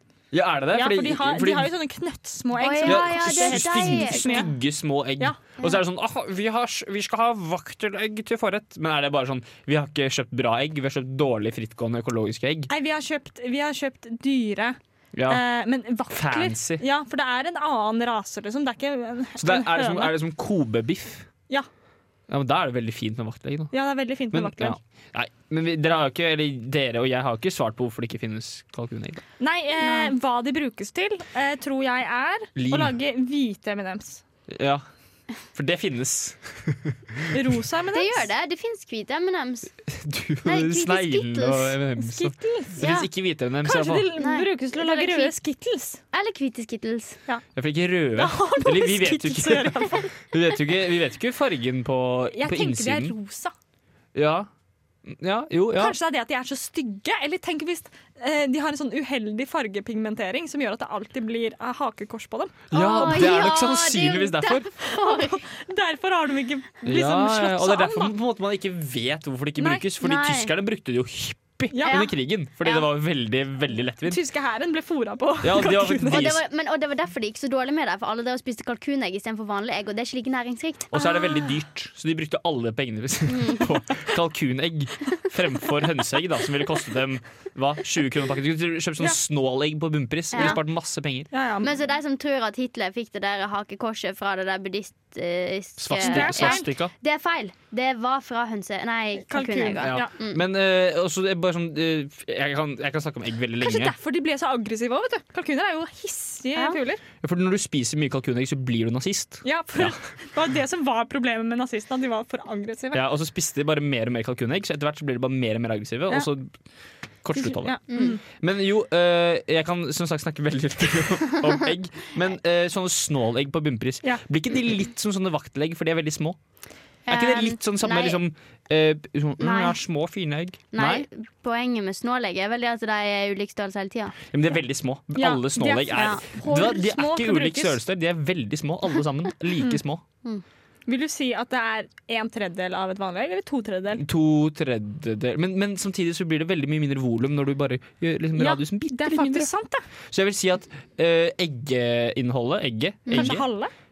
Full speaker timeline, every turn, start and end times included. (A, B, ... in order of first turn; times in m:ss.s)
0:00.3-0:01.7 A
0:00.7-0:04.5 B
0:02.6-0:04.4 C
0:02.8-0:12.7 A
0:12.7-0:20.2 B
0:15.1-0:15.4 A
0:16.1-0:16.8 A
0:19.4-0:21.3 A
0:22.3-0:23.7 A
0:23.7-0:24.8 B
0:24.3-0:29.2 A
0:29.4-0:34.2 B
0:29.8-0:30.1 C
0:32.6-0:33.0 A
0:34.5-0:34.8 A
0:35.5-0:37.3 A
0:37.3-0:38.3 B
0:37.9-0:39.7 C
0:39.9-0:44.1 A
0:40.4-0:41.7 C
0:42.0-0:43.0 B
0:43.6-0:46.0 B
0:44.2-0:45.3 C
0:46.1-0:47.2 C
0:47.6-0:53.1 A
0:48.2-0:50.1 B
0:52.3-0:53.5 B
0:54.1-0:54.5 A
0:55.0-0:56.0 A
0:55.7-1:03.4 B
1:02.7-1:04.7 A
1:02.7-1:05.4 C
1:04.9-1:08.1 B
1:06.8-1:14.2 A
1:09.6-1:09.9 B
1:10.0-1:10.5 C
1:11.7-1:12.0 B
1:11.8-1:12.1 C
1:14.0-1:16.3 B
1:15.4-1:16.4 A
1:16.0-1:20.9 C
1:20.9-1:31.3 A
1:21.0-1:21.5 B
1:23.3-1:23.7 C
1:30.3-1:30.6 C
1:31.3-1:31.7 B
1:31.6-1:40.4 C
1:35.8-1:36.9 A
1:35.9-1:36.7 B
1:39.2-1:40.1 B
1:39.8-1:43.9 A
1:43.6-1:47.0 B
1:47.2-1:50.0 A
1:49.4-1:53.0 B
1:52.9-1:56.5 A
1:57.2-2:06.4 A
1:57.3-1:58.2 B
1:57.9-1:58.2 C
2:07.1-2:08.2 C
2:07.1-2:11.0 A
2:09.4-2:09.8 C
2:10.7-2:14.2 C
2:14.3-2:20.0 A
2:15.1-2:17.8 B
2:15.9-2:16.2 C
2:20.9-2:24.0 B
2:24.0-2:29.5 A
2:28.4-2:29.8 B
2:30.1-2:33.4 A
2:33.1-2:33.4 C
2:33.1-2:33.7 B